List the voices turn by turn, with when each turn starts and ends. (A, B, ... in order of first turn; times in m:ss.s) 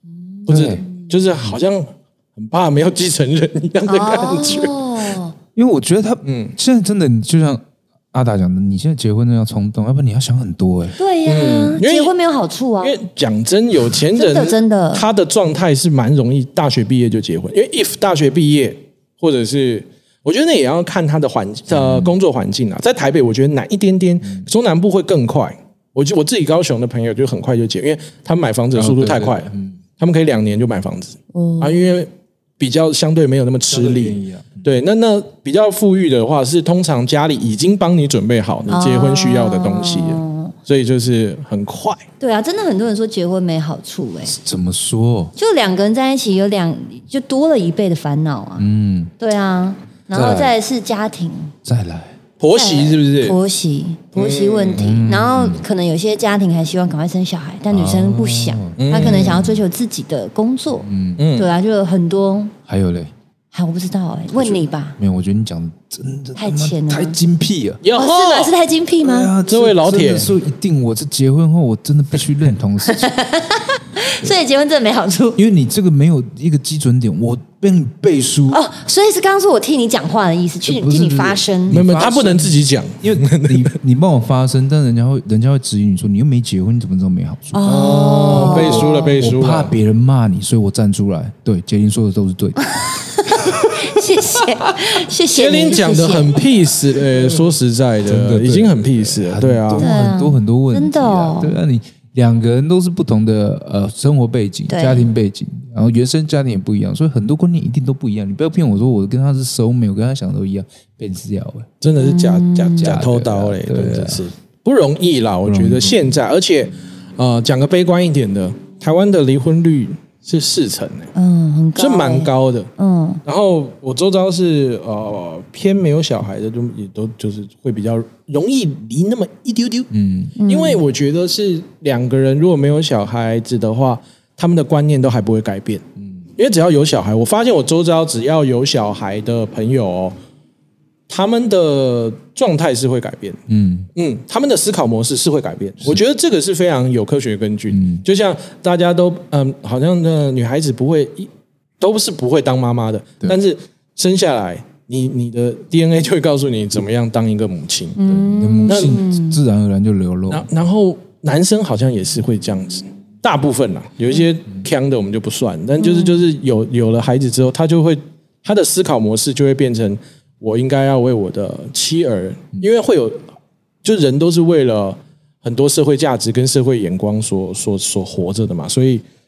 0:00.3-0:01.1 A
0:00.5-0:00.8 B
0:00.5-0:04.7 C
0:03.9-0:05.3 A
0:05.5-0:11.0 B
0:06.2-0:06.6 C
0:11.0-0:13.0 A
0:11.2-0:12.1 C
0:12.8-0:42.0 C
0:14.1-0:15.0 A
0:21.7-0:22.1 B
0:28.7-0:29.8 B
0:31.3-0:31.9 A
0:33.7-0:34.6 B
0:38.7-0:40.5 A
0:42.2-0:44.3 A
0:44.2-0:45.3 B
0:45.4-0:48.7 A
0:48.6-0:49.1 B
0:49.2-0:51.5 A
0:50.1-0:50.6 B
0:51.6-0:52.2 B
0:52.4-0:53.4 C
0:52.5-1:02.5 A
0:54.1-0:54.9 C
0:54.8-0:55.6 B
0:57.7-0:59.6 B
0:58.8-0:59.4 C
1:00.8-1:01.2 B
1:01.2-1:01.5 C
1:02.7-1:03.1 B
1:03.5-1:05.0 A
1:04.4-1:07.8 B
1:06.4-1:07.2 A
1:07.8-1:08.5 C
1:07.9-1:09.3 A
1:09.0-1:13.1 B
1:09.5-1:10.3 C
1:12.9-1:15.4 A
1:15.4-1:18.6 B
1:18.5-1:21.8 A
1:20.6-1:32.7 B
1:21.7-1:23.7 C
1:27.5-1:29.1 A
1:27.7-1:29.7 C
1:32.8-1:36.4 A
1:35.3-1:39.9 C
1:38.0-1:51.7 B
1:39.8-1:41.6 A
1:44.7-1:45.1 A
1:51.8-2:01.1 C
1:51.9-1:52.9 A
1:52.8-1:54.2 B
1:55.4-1:56.2 B
2:01.1-2:03.2 A
2:01.8-2:02.7 C
2:03.2-2:09.9 C
2:09.9-2:10.3 B
2:10.4-2:10.8 A
2:10.4-2:15.8 C
2:16.4-2:20.1 C
2:21.1-2:23.4 C
2:23.5-2:23.9 B
2:24.0-2:38.0 C
2:27.7-2:28.0 B
2:38.0-2:39.4 A
2:38.1-2:40.5 B
2:38.7-2:39.0 C
2:40.3-2:53.2 C
2:45.8-2:46.2 A
2:53.8-2:59.0 C